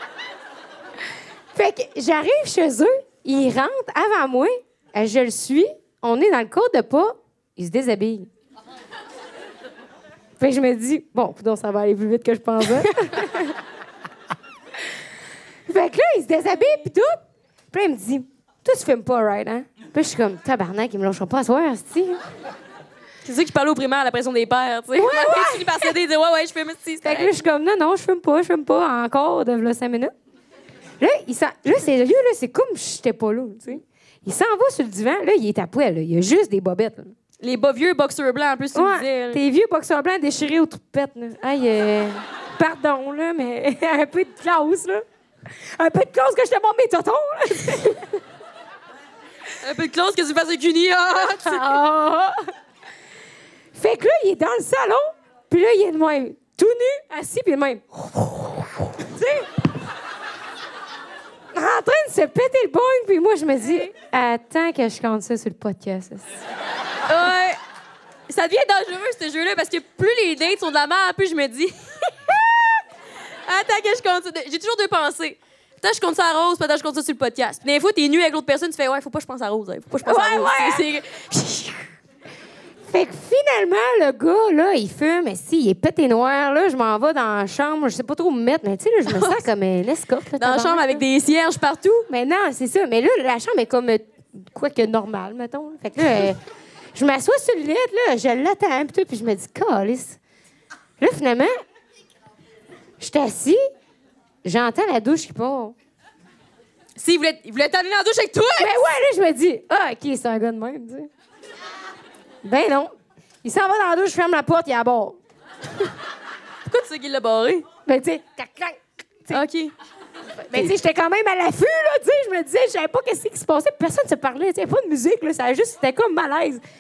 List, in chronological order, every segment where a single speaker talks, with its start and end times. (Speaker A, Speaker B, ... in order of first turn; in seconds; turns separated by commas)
Speaker A: 1.5-8.3, Speaker A: 10.4-13.6, Speaker A: 15.7-17.2, Speaker A: 17.7-22.2, Speaker B: 23.2-27.3, Speaker A: 24.9-25.9, Speaker A: 27.0-30.1, Speaker A: 31.0-37.1, Speaker B: 37.4-39.4, Speaker A: 38.7-45.0, Speaker A: 45.8-48.1, Speaker B: 49.6-51.8, Speaker A: 51.4-52.3, Speaker A: 53.7-59.5, Speaker A: 61.5-66.2, Speaker B: 67.0-67.6, Speaker B: 68.3-72.1, Speaker B: 73.5-81.9, Speaker A: 80.0-80.8, Speaker A: 82.9-91.0, Speaker B: 89.0-89.4, Speaker B: 90.4-92.1, Speaker A: 92.1-96.4, Speaker A: 96.9-100.2, Speaker A: 101.0-101.5, Speaker A: 103.0-103.6, Speaker A: 104.4-105.7, Speaker B: 107.0-108.8, Speaker A: 108.6-111.1, Speaker A: 112.4-112.9, Speaker A: 113.4-115.2, Speaker B: 116.7-117.7, Speaker A: 117.8-119.4, Speaker B: 119.3-119.7, Speaker A: 120.5-126.6